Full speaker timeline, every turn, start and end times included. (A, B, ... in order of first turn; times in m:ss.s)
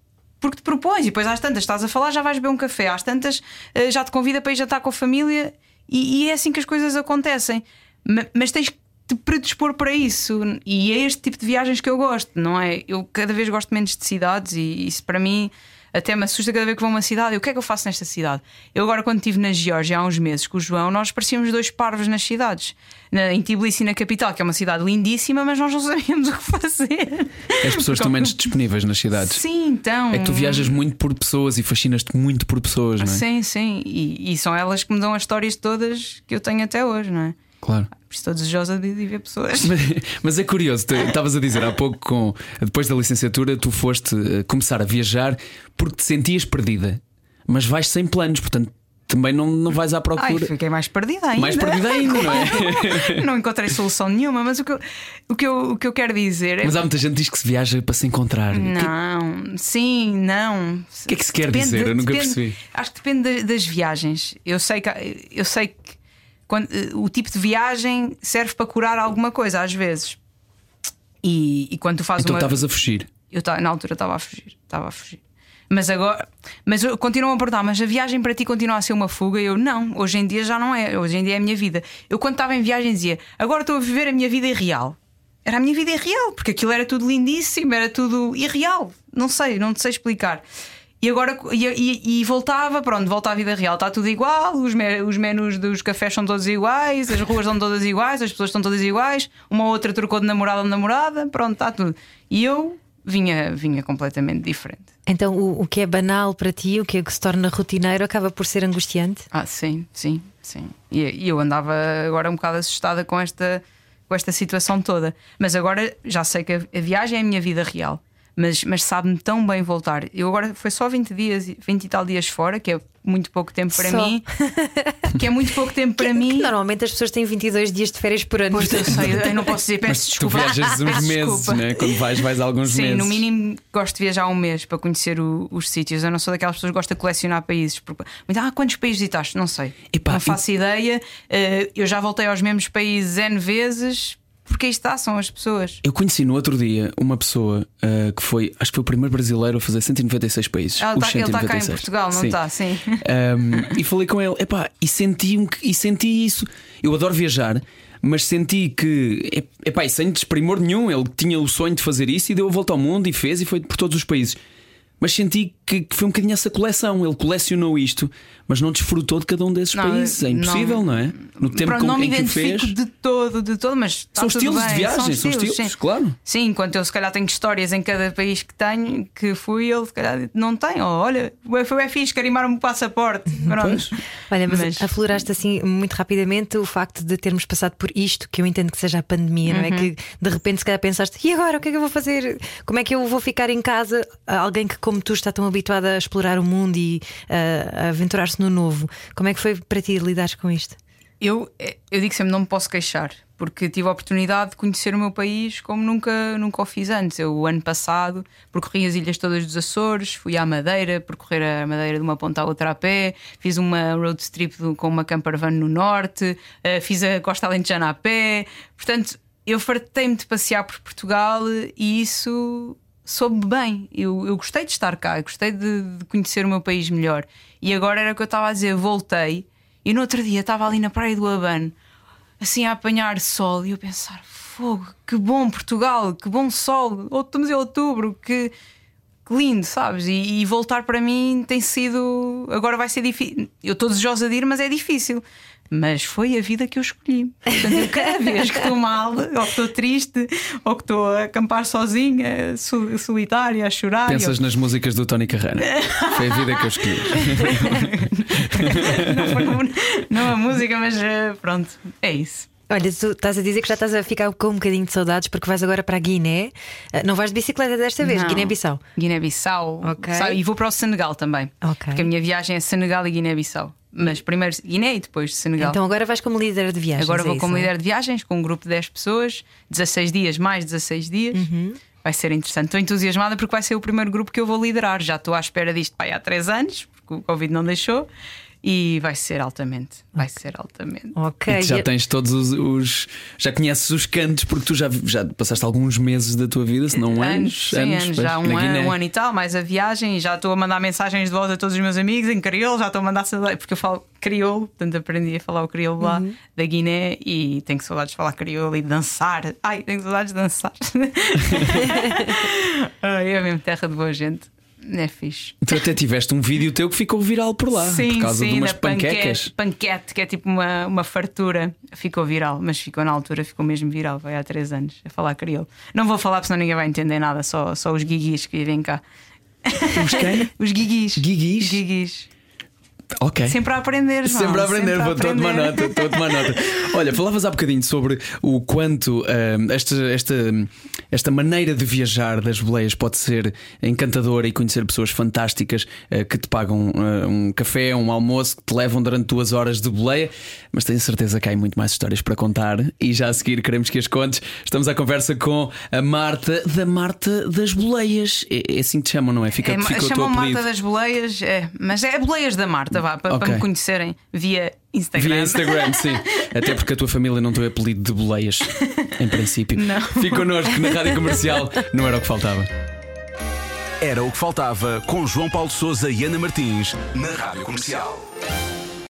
0:00.4-0:28.4 A
0:27.6-0:29.4 B
0:29.2-0:30.8 A
0:30.1-0:33.2 B
0:33.0-0:37.4 A
0:37.6-0:37.9 B
0:37.9-0:39.7 A
0:39.6-0:50.5 B
0:50.2-0:56.8 A
0:51.4-0:53.2 B
0:56.6-0:58.9 B
0:58.5-1:06.0 A
1:01.1-1:02.6 B
1:06.5-1:10.2 A
1:11.2-1:12.6 A
1:12.2-1:13.1 B
1:13.3-1:30.4 A
1:31.0-1:44.9 A
1:45.1-1:49.2 C
1:49.3-2:04.3 A
2:03.7-2:05.1 C
2:05.1-2:06.5 A
2:06.0-2:09.2 C
2:08.5-2:11.7 A
2:08.7-2:09.2 B
2:09.9-2:13.2 B
2:12.6-2:25.8 A
2:19.9-2:20.4 B
2:25.8-2:32.4 B
2:30.8-2:33.0 A
2:33.0-2:44.4 B
2:45.0-2:52.7 B
2:49.7-3:04.9 A
2:54.2-2:56.2 B
3:03.5-3:03.9 B
3:04.3-3:20.8 C
3:09.5-3:09.9 A
3:21.2-3:51.7 A
3:52.4-3:58.5 A
3:59.2-4:14.4 A
4:14.0-4:19.2 B
4:15.6-4:22.5 A
4:22.7-4:28.8 C
4:28.0-4:35.8 A
4:29.8-4:30.4 C
4:31.6-4:32.1 C
4:35.6-4:37.7 C
4:37.0-4:41.5 A
4:41.3-4:41.8 C
4:42.0-4:48.1 A
4:48.6-4:51.2 A
4:51.1-4:51.9 C
4:51.5-4:59.0 B
4:56.9-5:15.8 A
5:06.0-5:06.3 C
5:15.6-5:19.5 B
5:17.7-5:29.0 A
5:29.6-5:32.3 A
5:29.9-5:30.5 B
5:31.2-5:31.8 B
5:33.2-5:33.6 B
5:33.5-5:36.5 A
5:34.2-6:00.6 B
5:59.6-6:06.5 A
6:03.3-6:03.6 B
6:05.2-6:12.7 B
6:08.7-6:09.1 A
6:09.7-6:10.8 A
6:14.0-6:18.3 D